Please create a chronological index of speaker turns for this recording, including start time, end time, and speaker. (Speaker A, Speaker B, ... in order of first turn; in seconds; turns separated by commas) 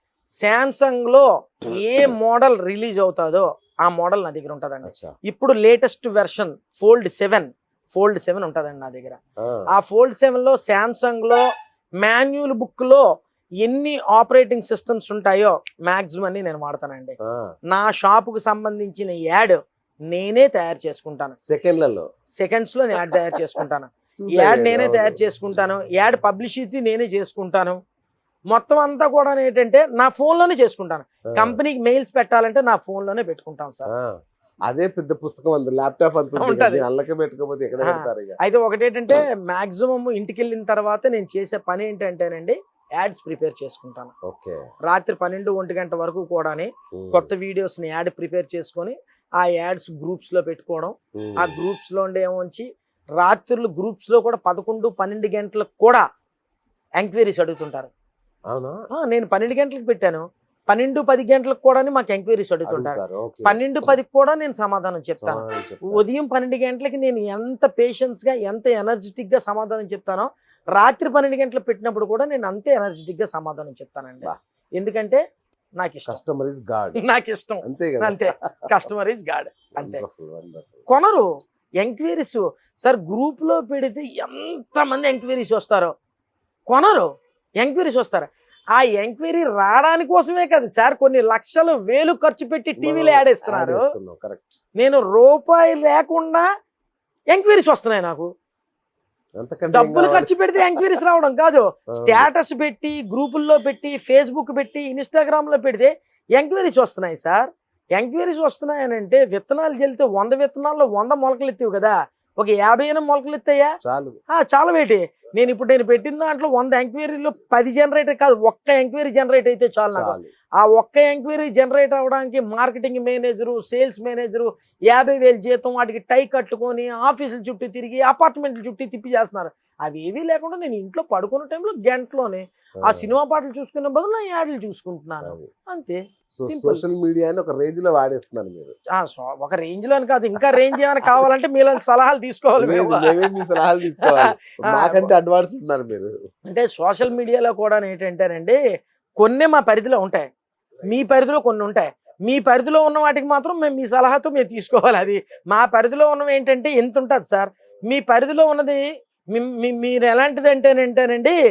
Speaker A: 0.4-9.2, Speaker B: 4.8-5.2, Speaker A: 9.7-11.5, Speaker A: 12.0-13.1, Speaker A: 13.6-17.2, Speaker A: 17.7-21.4, Speaker B: 21.5-22.1, Speaker A: 22.4-27.8, Speaker B: 24.2-25.2, Speaker A: 28.5-33.9, Speaker B: 31.3-31.6, Speaker B: 34.7-38.4, Speaker A: 36.4-36.9, Speaker A: 37.8-44.1, Speaker B: 44.2-44.6, Speaker A: 44.9-52.7, Speaker B: 47.0-47.3, Speaker B: 51.2-51.6, Speaker A: 53.2-56.0, Speaker A: 57.0-57.9, Speaker B: 58.5-58.8, Speaker A: 58.9-75.2, Speaker B: 62.7-63.9, Speaker B: 65.2-66.0, Speaker A: 75.8-76.2, Speaker B: 76.1-77.1, Speaker A: 77.0-80.1, Speaker B: 77.6-78.7, Speaker B: 79.8-80.8, Speaker A: 80.9-85.9, Speaker A: 86.7-93.9, Speaker B: 92.8-94.6, Speaker A: 94.8-96.5, Speaker A: 97.3-98.3, Speaker B: 99.4-100.8, Speaker A: 99.7-113.8, Speaker B: 101.9-102.3, Speaker B: 113.8-114.2, Speaker A: 114.3-136.8, Speaker B: 119.9-120.3, Speaker B: 132.8-133.1, Speaker B: 135.2-135.5, Speaker B: 136.3-138.8, Speaker A: 139.0-143.4, Speaker B: 140.6-141.2, Speaker B: 142.6-146.1, Speaker A: 144.0-145.1, Speaker A: 146.5-148.6, Speaker A: 149.2-150.3, Speaker A: 150.8-161.4